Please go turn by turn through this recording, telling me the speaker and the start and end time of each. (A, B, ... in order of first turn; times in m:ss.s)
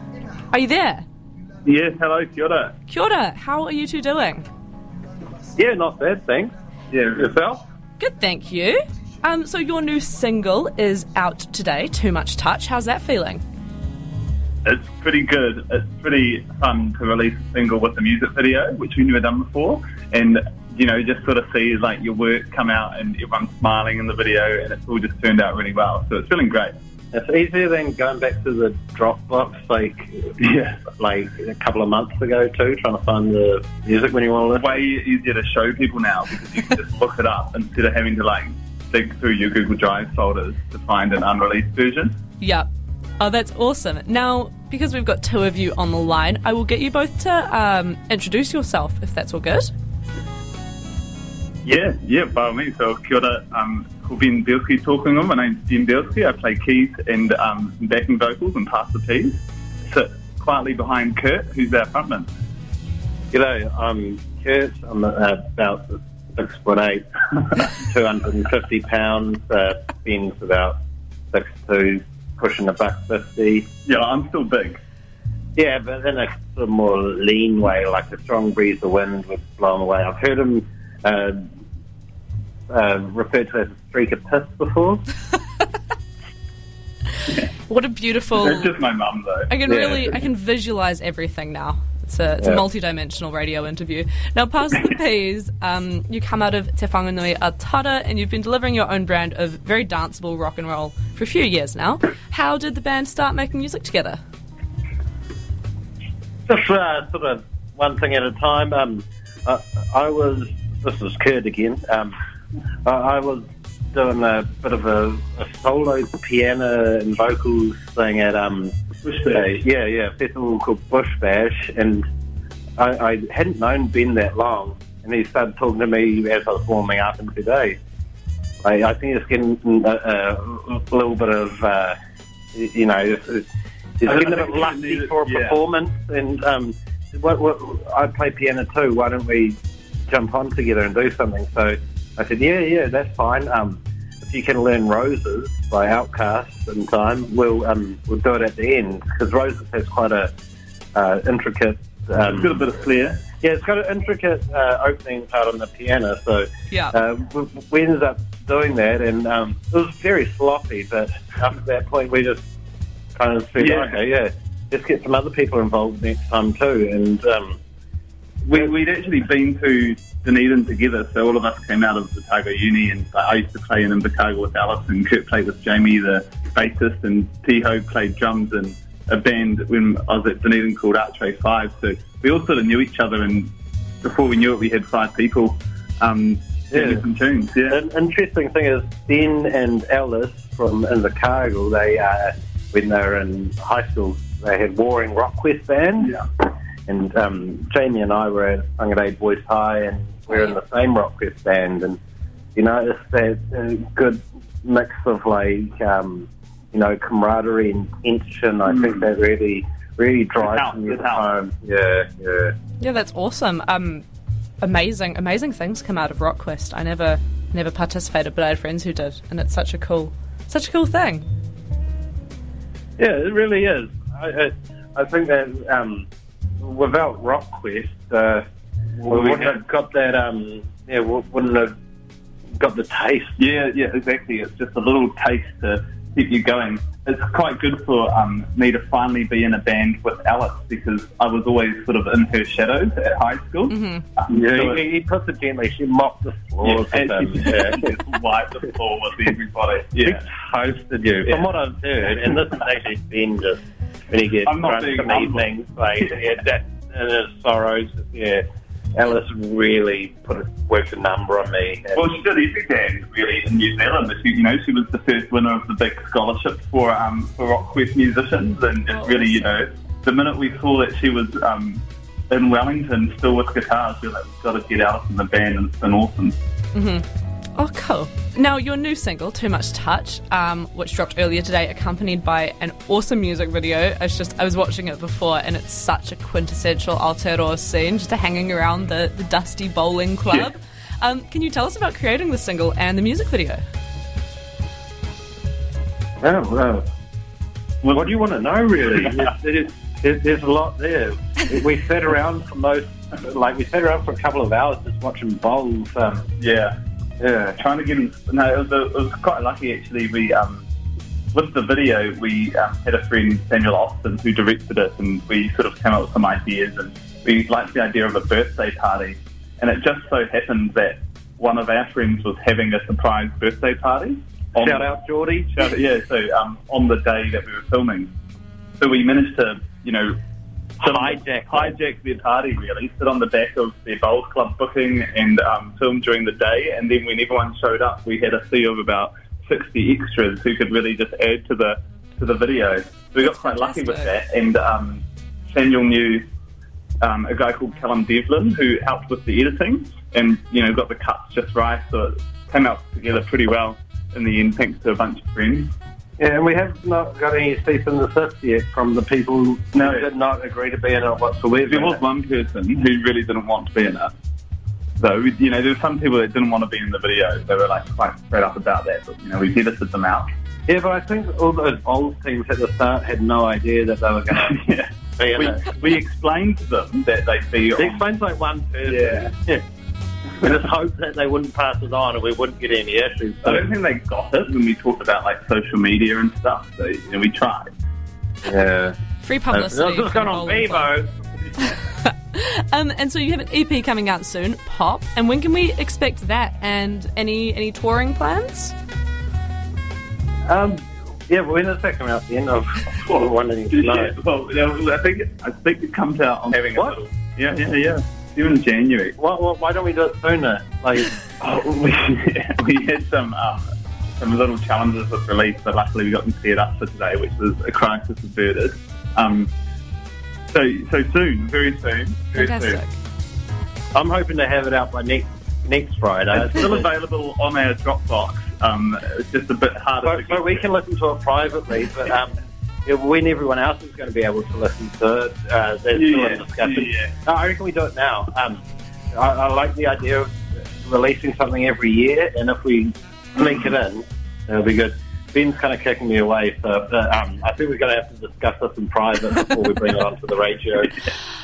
0:00.5-0:01.0 A
0:01.6-0:02.7 B
0:02.9-0:04.4 A
0:05.5-0:06.5 C
0:06.9-0:07.3 B
0:07.1-0:07.6 C
0:08.0-0:13.4 A
0:14.6-0:26.7 B
0:27.1-0:34.8 C
0:30.4-0:30.8 B
0:34.5-0:42.2 B
0:42.4-0:42.7 A
0:43.2-0:49.7 A
0:51.6-1:02.3 B
1:03.3-1:10.8 C
1:11.3-1:13.7 C
1:13.8-1:14.8 B
1:15.6-1:21.5 C
1:22.7-1:25.0 C
1:27.7-1:28.7 A
1:28.4-1:29.5 B
1:29.5-1:44.2 A
1:29.6-1:30.1 C
1:46.5-1:52.1 C
1:52.8-1:58.7 C
1:59.0-1:59.6 B
1:59.3-2:02.0 C
2:02.8-2:07.8 C
2:08.6-2:12.0 C
2:12.5-2:13.4 C
2:14.0-2:19.6 C
2:14.1-2:15.6 B
2:20.1-2:30.3 C
2:30.9-2:32.6 C
2:32.2-2:33.2 B
2:33.4-2:42.4 C
2:36.7-2:36.9 A
2:43.1-2:47.6 C
2:43.6-2:44.0 B
2:48.4-3:03.5 B
3:04.0-3:07.8 B
3:06.7-3:07.0 C
3:07.7-3:22.0 C
3:22.5-3:32.5 C
3:28.7-3:29.0 B
3:30.4-3:31.4 B
3:32.8-3:34.0 A
3:34.6-3:41.2 A
3:43.0-3:46.1 C
3:46.6-3:48.4 C
3:49.0-3:49.6 B
3:49.1-3:51.7 C
3:52.6-3:53.4 C
3:53.4-4:04.8 B
4:03.7-4:04.0 A
4:04.3-4:07.9 C
4:06.6-4:10.2 B
4:10.0-4:18.4 C
4:14.4-4:15.5 B
4:18.9-4:22.1 C
4:22.0-4:36.4 B
4:28.9-4:29.6 A
4:36.7-4:53.6 A
4:56.2-4:56.8 C
4:57.8-4:58.1 B
4:57.9-5:06.3 C
5:06.4-5:06.7 B
5:07.2-5:07.5 C
5:07.5-5:10.6 B
5:11.3-5:24.9 B
5:24.6-5:25.8 C
5:25.5-5:28.1 B
5:28.8-5:30.2 B
5:30.8-5:46.3 B
5:30.8-5:31.8 C
5:43.2-5:44.1 A
5:47.0-5:55.7 B
5:56.2-6:02.0 C
5:59.7-6:00.1 B
6:01.6-6:04.1 B
6:05.0-6:10.3 B
6:10.7-6:14.6 C
6:14.3-6:18.0 B
6:15.2-6:15.8 C
6:17.8-6:19.6 C
6:18.9-6:19.3 B
6:20.4-6:23.7 C
6:23.4-6:27.7 B
6:28.4-6:29.0 C
6:29.2-6:30.9 A
6:29.5-6:31.3 C
6:31.6-6:38.7 A
6:40.5-6:44.1 C
6:43.1-6:49.2 B
6:49.2-6:51.1 C
6:51.4-6:53.7 B
6:54.2-6:59.5 B
7:00.5-7:02.8 B
7:02.3-7:02.9 A
7:03.9-7:06.9 C
7:06.3-7:10.6 B
7:10.0-7:30.9 C
7:15.9-7:17.1 B